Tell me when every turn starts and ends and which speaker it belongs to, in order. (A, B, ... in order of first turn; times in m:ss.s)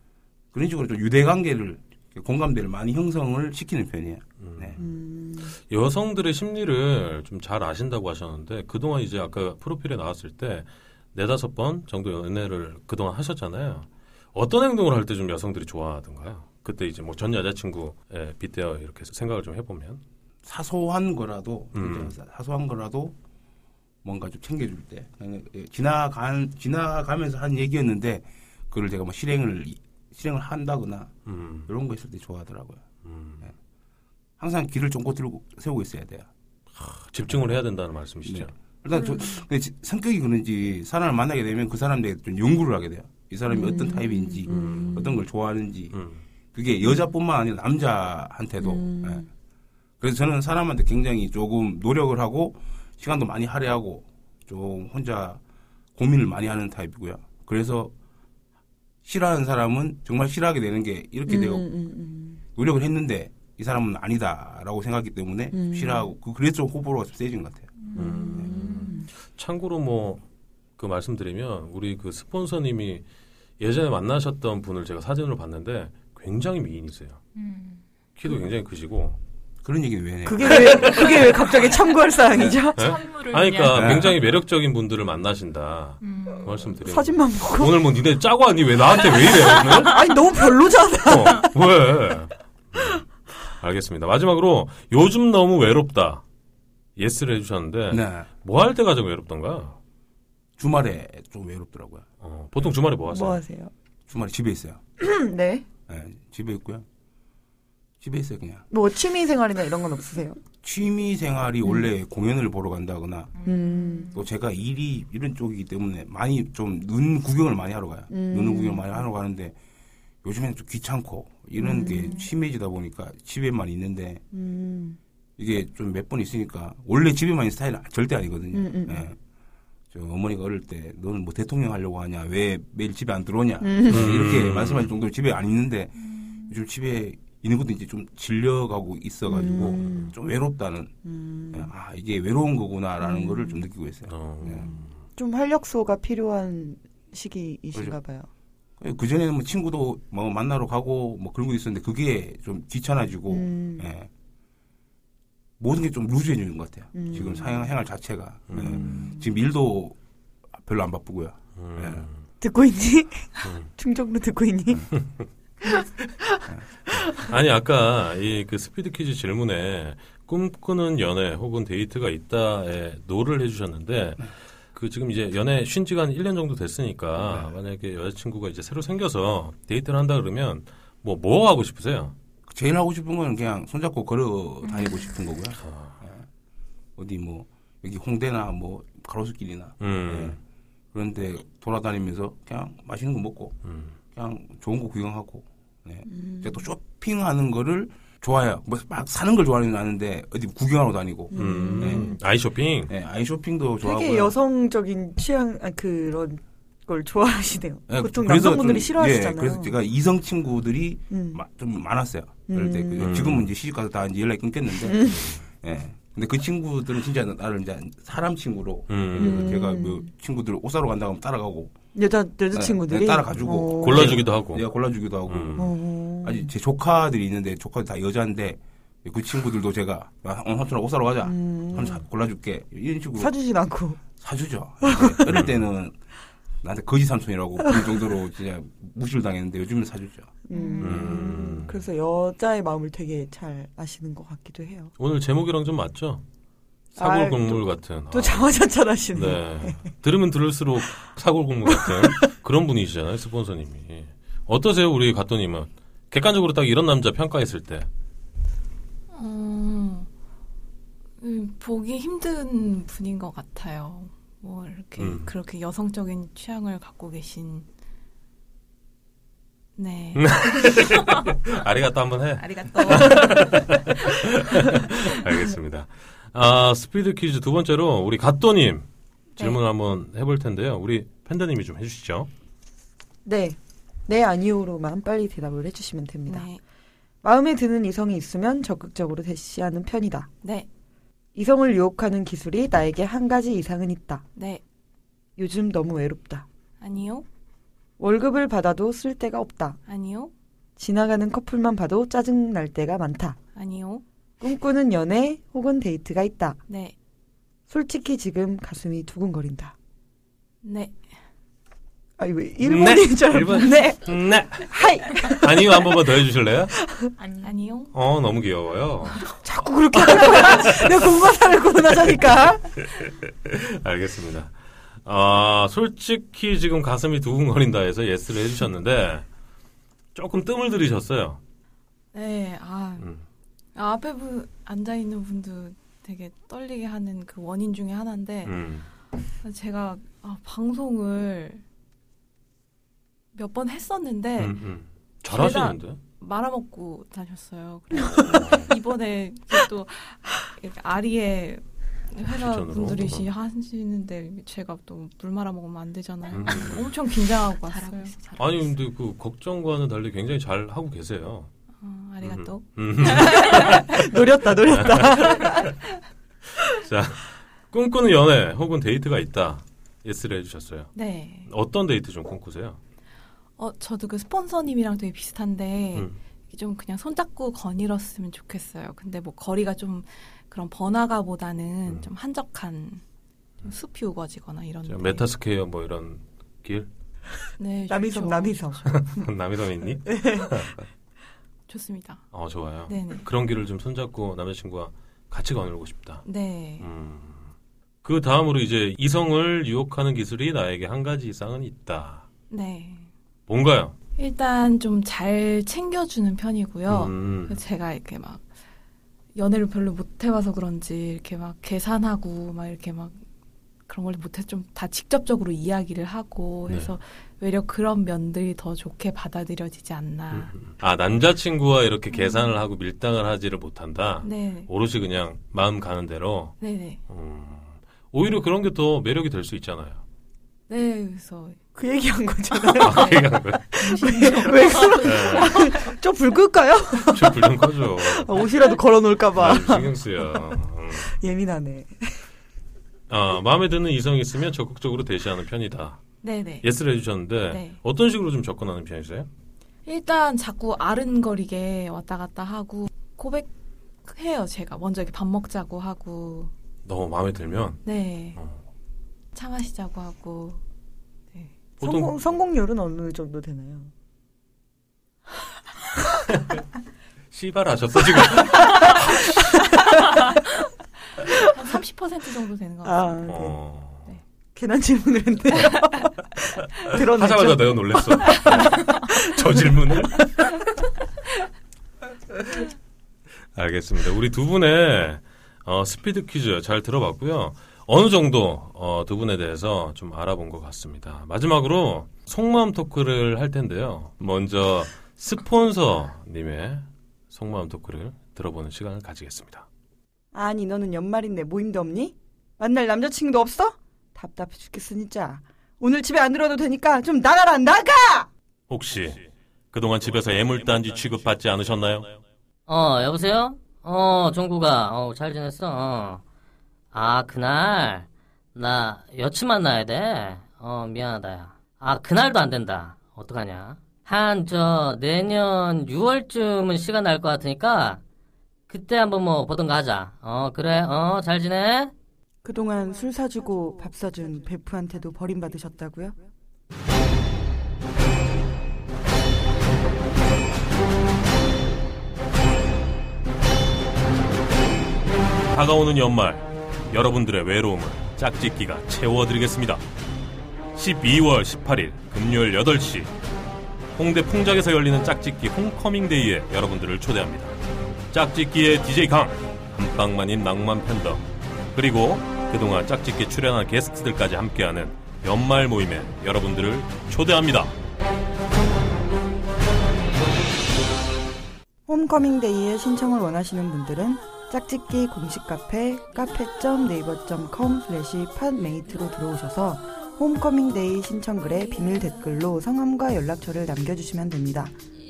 0:00.5-0:04.8 A
0:04.4-0:04.8 B
0:04.8-0:05.5 C
0:05.5-0:20.0 B
0:20.4-0:23.1 A
0:21.7-0:22.1 B
0:24.0-0:31.2 A
0:31.3-0:31.7 B
0:31.7-0:32.8 A
0:33.0-0:33.4 B
0:34.4-0:36.3 A
0:36.8-0:38.5 B
0:38.2-0:46.0 A
0:38.9-0:39.4 C
0:43.4-0:45.2 C
0:44.5-0:45.0 B
0:45.9-0:46.2 B
0:46.5-0:49.2 A
0:46.8-0:47.1 C
0:48.6-0:49.3 C
0:50.0-0:55.4 A
0:55.9-0:57.9 A
0:59.0-1:01.7 A
1:01.3-1:02.4 C
1:02.6-1:07.7 A
1:05.5-1:06.1 C
1:07.8-1:09.0 D
1:07.9-1:10.2 B
1:08.0-1:09.1 C
1:10.8-1:13.0 B
1:13.6-1:17.2 B
1:17.3-1:17.8 D
1:18.2-1:19.2 B
1:19.6-1:21.4 A
1:20.2-1:23.0 C
1:22.6-1:24.0 D
1:22.7-1:30.0 B
1:23.7-1:24.1 A
1:26.0-1:26.6 D
1:26.8-1:27.8 C
1:29.6-1:31.5 C
1:31.0-1:33.0 B
1:33.6-1:36.2 B
1:37.0-1:39.8 B
1:37.9-1:38.3 A
1:40.6-1:42.0 A
1:42.2-1:43.4 B
1:43.1-1:43.7 C
1:44.1-1:44.8 A
1:45.0-1:45.6 C
1:45.9-1:46.8 A
1:48.0-1:48.6 A
1:48.7-1:50.4 C
1:50.6-1:53.3 A
1:51.6-1:51.9 C
1:53.4-1:54.1 D
1:53.4-1:54.2 C
1:54.1-1:59.5 A
1:58.1-1:59.0 C
2:00.2-2:04.2 A
2:01.6-2:02.3 C
2:04.3-2:05.0 C
2:05.4-2:09.2 A
2:08.5-2:09.1 C
2:09.9-2:20.9 A
2:13.6-2:14.1 C
2:13.9-2:14.9 B
2:19.2-2:20.1 C
2:19.8-2:20.1 B
2:21.0-2:21.7 C
2:21.5-2:24.7 A
2:23.0-2:23.6 C
2:24.1-2:24.9 B
2:25.2-2:28.3 C
2:28.8-2:34.1 A
2:33.3-2:33.9 C
2:35.6-2:40.0 A
2:36.9-2:37.8 C
2:38.5-2:38.8 B
2:38.6-2:39.4 C
2:40.6-2:42.0 A
2:41.6-2:42.2 B
2:42.4-2:44.9 C
2:46.4-2:47.0 C
2:47.0-3:02.1 B
2:57.2-2:57.5 A
3:02.5-3:06.2 A
3:05.6-3:05.9 B
3:07.0-3:10.4 A
3:09.8-3:10.4 B
3:10.9-3:13.6 A
3:13.6-3:13.9 B
3:14.1-3:22.2 A
3:16.0-3:16.7 C
3:21.3-3:22.2 C
3:21.3-3:22.9 B
3:22.9-3:24.3 A
3:23.8-3:29.8 C
3:27.9-3:41.7 A
3:31.1-3:31.4 C
3:32.5-3:33.3 C
3:33.0-3:33.5 B
3:34.7-3:35.3 C
3:38.9-3:39.5 B
3:39.2-3:40.1 C
3:41.9-3:44.2 C
3:42.5-3:45.7 A
3:43.7-3:44.6 B
3:45.2-3:45.7 B
3:45.6-3:46.5 C
3:46.2-3:53.3 A
3:51.2-3:52.0 C
3:53.2-3:54.0 C
3:54.2-3:56.0 A
3:54.8-3:55.4 C
3:55.3-3:55.6 B
3:56.6-4:00.3 A
4:00.5-4:04.9 C
4:00.8-4:01.8 B
4:05.0-4:06.2 B
4:06.9-4:08.5 B
4:07.0-4:09.9 C
4:09.1-4:17.9 B
4:11.6-4:12.2 C
4:19.1-4:20.1 E
4:21.2-4:27.7 E
4:25.0-4:25.3 B
4:29.8-4:31.0 E
4:30.1-4:42.3 B
4:32.4-4:33.8 E
4:43.2-4:46.5 C
4:46.3-4:46.6 E
4:47.2-4:50.3 C
4:50.4-4:50.7 E
4:51.3-4:54.2 C
4:54.3-4:54.6 E
4:55.4-4:56.4 C
4:56.8-4:57.2 E
4:58.0-4:59.8 C
4:59.8-5:00.3 E
5:00.8-5:03.4 C
5:03.5-5:04.0 E
5:04.4-5:06.6 C
5:06.7-5:06.9 E
5:07.7-5:09.7 C
5:10.6-5:11.0 E
5:12.2-5:15.9 C
5:12.6-5:16.7 B
5:16.8-5:17.1 C
5:17.2-5:17.6 D
5:17.4-5:17.9 E
5:17.9-5:19.2 B
5:19.4-5:22.7 C
5:20.0-5:20.8 B
5:23.2-5:29.2 B
5:30.1-5:31.4 B
5:32.1-5:33.0 E
5:33.0-5:33.2 B
5:33.7-5:38.6 E
5:38.4-5:38.9 B
5:39.4-5:41.6 E
5:43.3-5:44.6 E
5:44.4-5:46.0 B
5:45.3-5:58.5 E
5:48.0-5:48.7 B
5:52.2-5:53.2 B
5:56.3-5:56.9 B
5:57.7-5:58.2 D
5:58.4-6:01.5 B
6:01.8-6:04.1 E
6:02.2-6:03.9 B
6:03.2-6:05.7 C
6:04.7-6:05.7 B
6:06.6-6:10.9 B
6:10.9-6:11.5 E
6:11.4-6:12.8 B
6:13.6-6:23.0 E
6:23.6-6:25.2 E
6:24.8-6:26.9 B
6:27.6-6:28.6 E
6:27.9-6:29.3 C
6:28.8-6:30.7 B
6:30.0-6:30.6 C
6:31.7-6:32.2 E
6:32.3-6:36.2 B
6:32.8-6:33.2 E
6:36.2-6:36.9 E
6:36.8-6:37.5 B
6:38.0-6:42.2 B
6:42.5-6:43.1 E
6:43.5-6:43.9 B
6:44.2-6:48.5 E
6:46.9-6:47.6 B
6:49.3-6:53.2 E
6:53.9-7:00.5 E
6:56.7-6:56.9 B
7:00.3-7:10.0 B
7:02.1-7:02.6 E
7:04.2-7:04.7 E
7:06.6-7:07.0 E
7:10.7-7:11.6 E
7:11.8-7:13.2 C
7:12.7-7:15.7 E
7:12.8-7:13.6 B
7:13.8-7:17.4 C
7:15.0-7:15.9 B
7:17.1-7:18.3 B
7:17.9-7:20.6 C
7:19.3-7:21.1 B
7:21.1-7:21.9 C
7:23.1-7:26.0 B
7:26.2-7:26.7 E
7:26.6-7:29.3 B
7:27.5-7:27.8 E
7:29.8-7:33.5 E
7:34.0-7:36.5 E
7:36.8-7:37.8 B
7:37.8-7:38.4 E
7:38.3-7:38.6 B
7:39.3-7:40.6 E
7:41.8-7:42.2 B
7:41.8-7:43.9 C
7:46.3-7:46.6 B
7:47.3-7:49.3 B
7:51.5-7:53.2 E
7:52.8-7:53.6 C
7:53.2-7:54.1 B
7:54.5-7:56.1 C
7:56.7-7:59.9 C
7:56.8-8:00.6 B
8:03.5-8:19.6 B
8:20.3-8:28.3 C
8:28.7-8:32.2 B
8:32.7-8:36.2 F
8:36.9-8:48.0 F
8:48.7-8:51.9 F
8:52.4-8:56.2 C
9:05.5-9:09.8 B
9:10.7-9:13.1 B
9:13.9-9:17.6 B
9:18.1-9:27.7 B
9:31.9-9:44.7 C